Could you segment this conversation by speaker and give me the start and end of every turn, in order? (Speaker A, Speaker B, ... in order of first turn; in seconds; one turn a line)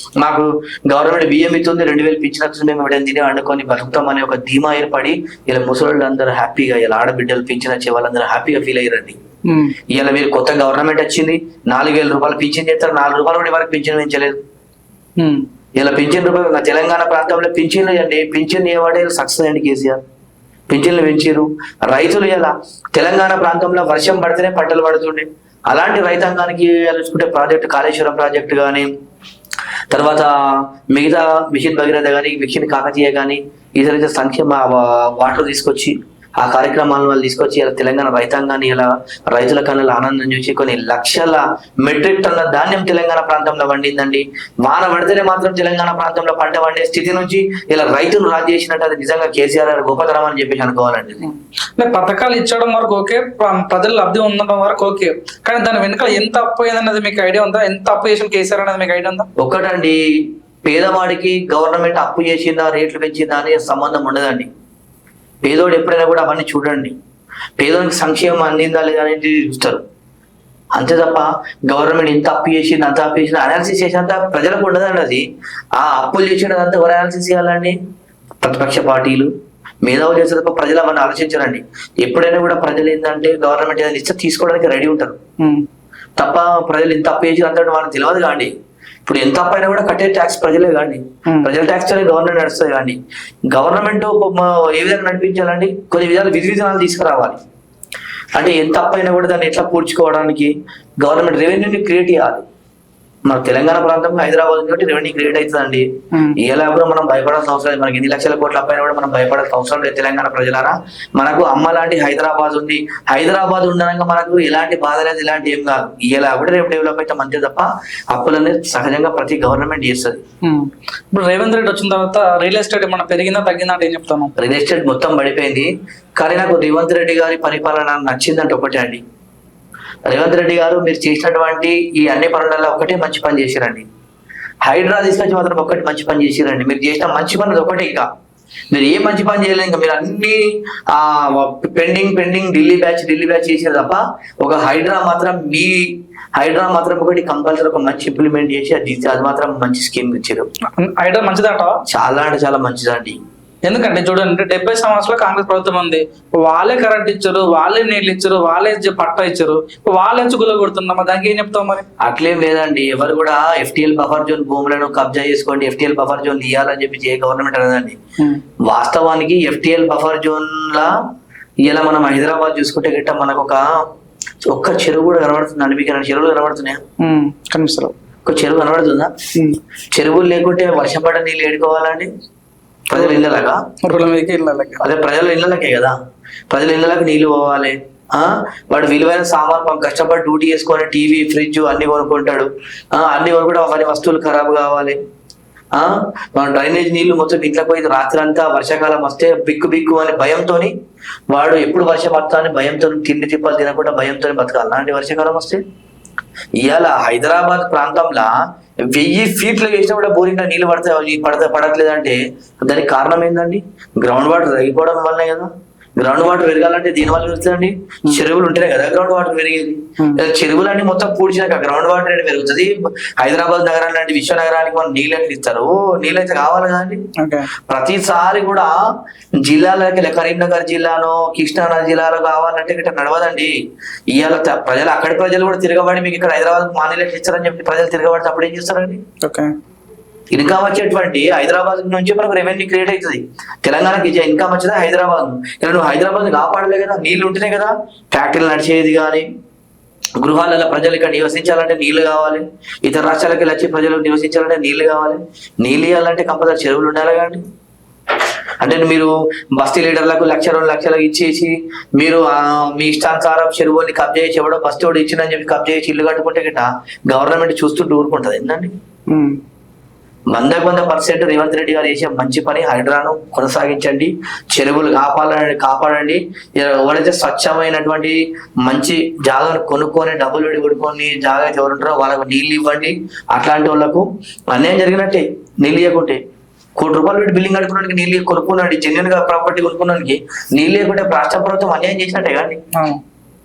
Speaker A: 0.2-9.2
Speaker B: 9.5-9.8
Speaker A: 9.9-14.4
Speaker B: 15.2-15.4
Speaker A: 15.8-20.0
Speaker A: 20.7-28.9
Speaker A: 29.9-51.2
Speaker B: 51.8-59.3
Speaker A: 59.4-64.5
Speaker A: 65.4-67.0
Speaker A: 67.6-69.8
Speaker A: 70.7-77.8
Speaker A: 78.4-79.3
Speaker A: 79.8-85.2
Speaker B: 85.4-85.7
Speaker A: 86.2-88.5
Speaker A: 89.1-93.0
Speaker A: 93.5-97.4
Speaker A: 98.3-102.4
Speaker A: 103.3-120.2
Speaker B: 106.1-106.4
Speaker B: 120.4-124.3
Speaker A: 124.4-129.0
Speaker A: 130.1-133.9
Speaker A: 134.6-138.1
Speaker A: 138.7-150.5
Speaker B: 150.8-151.8
Speaker A: 151.9-153.2
Speaker B: 153.7-161.8
Speaker A: 162.0-168.0
Speaker A: 168.7-170.9
Speaker A: 171.7-173.6
Speaker A: 174.4-176.8
Speaker B: 177.0-177.9
Speaker A: 178.2-179.1
Speaker A: 179.9-182.1
Speaker A: 182.9-183.6
Speaker B: 183.8-184.8
Speaker A: 184.8-186.0
Speaker A: 186.5-195.0
Speaker A: 195.7-200.7
Speaker A: 201.3-205.6
Speaker A: 206.6-208.3
Speaker A: 208.9-227.0
Speaker B: 227.2-227.5
Speaker A: 227.7-228.8
Speaker A: 229.4-233.6
Speaker A: 234.1-239.0
Speaker B: 239.2-239.5
Speaker A: 240.3-249.3
Speaker A: 250.2-257.4
Speaker A: 258.6-268.8
Speaker B: 269.1-269.4
Speaker A: 270.3-286.2
Speaker A: 286.8-292.6
Speaker B: 292.8-293.0